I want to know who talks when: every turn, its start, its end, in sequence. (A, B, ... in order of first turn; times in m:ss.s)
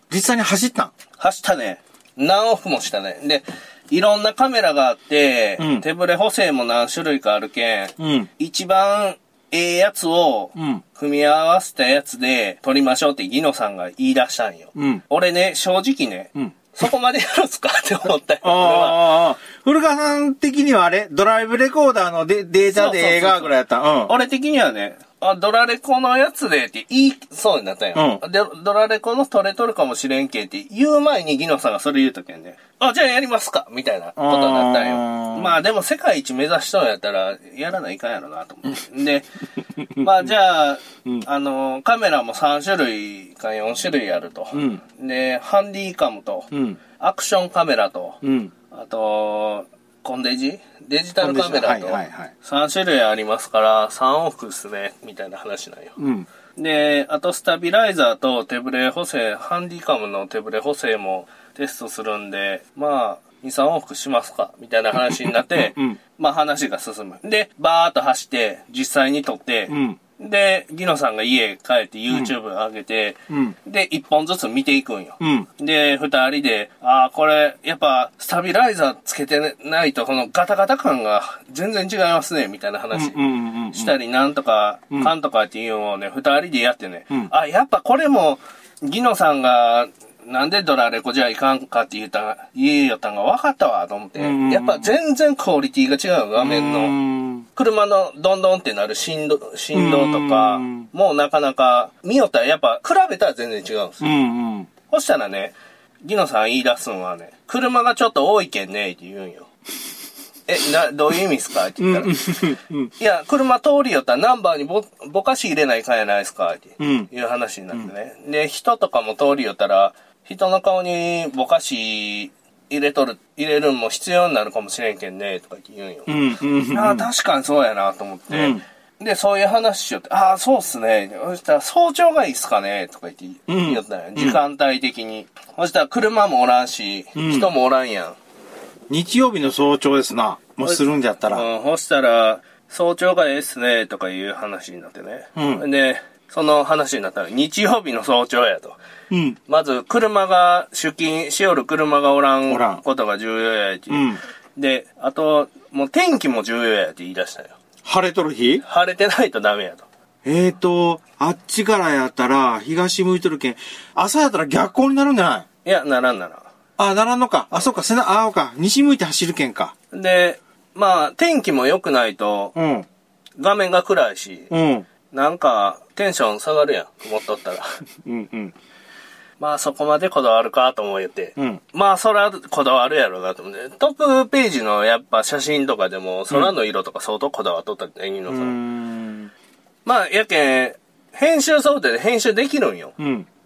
0:00.1-0:00.9 A
0:01.2-0:19.2 B
0:05.6-0:05.9 A
0:08.0-0:08.3 A
0:10.6-0:10.8 A
0:14.8-0:15.0 A
0:18.4-0:24.1 A
0:22.7-0:39.3 B
0:27.9-0:28.2 A
0:34.2-0:35.6 A
0:39.8-0:40.3 A
0:40.0-0:48.2 B
0:44.5-0:44.8 A
0:46.5-0:46.8 A
0:48.2-0:48.5 A
0:48.7-0:56.0 B
0:51.2-0:52.3 A
0:56.0-0:56.3 A
0:56.6-1:37.0 B
1:05.0-1:06.0 A
1:09.7-1:10.0 A
1:13.3-1:13.6 A
1:15.2-1:15.5 A
1:22.9-1:24.0 A
1:34.2-1:34.9 A
1:36.4-1:37.4 A
1:37.5-1:44.1 B
1:39.7-1:40.9 A
1:44.0-1:44.7 A
1:44.9-1:49.5 B
1:50.5-1:52.5 B
1:51.8-1:52.9 A
1:53.0-2:18.2 B
1:56.8-1:57.1 A
2:06.1-2:07.1 A
2:08.3-2:08.6 A
2:13.5-2:14.4 A
2:17.2-2:17.5 A
2:18.9-2:21.5 A
2:20.6-2:28.8 B
2:25.4-2:25.6 A
2:29.1-2:29.4 A
2:29.5-2:37.6 B
2:32.5-2:32.8 A
2:33.9-2:34.2 A
2:37.8-2:38.6 A
2:38.6-2:39.9 B
2:40.2-2:45.5 A
2:45.6-2:46.5 B
2:46.8-2:49.7 A
2:49.9-2:52.6 B
2:52.6-2:52.9 A
2:53.4-2:54.5 B
2:54.5-2:54.9 A
2:55.1-2:57.7 B
2:58.0-2:58.5 A
2:59.4-3:08.6 B
3:08.3-3:09.3 A
3:09.9-3:13.0 B
3:13.0-3:13.3 A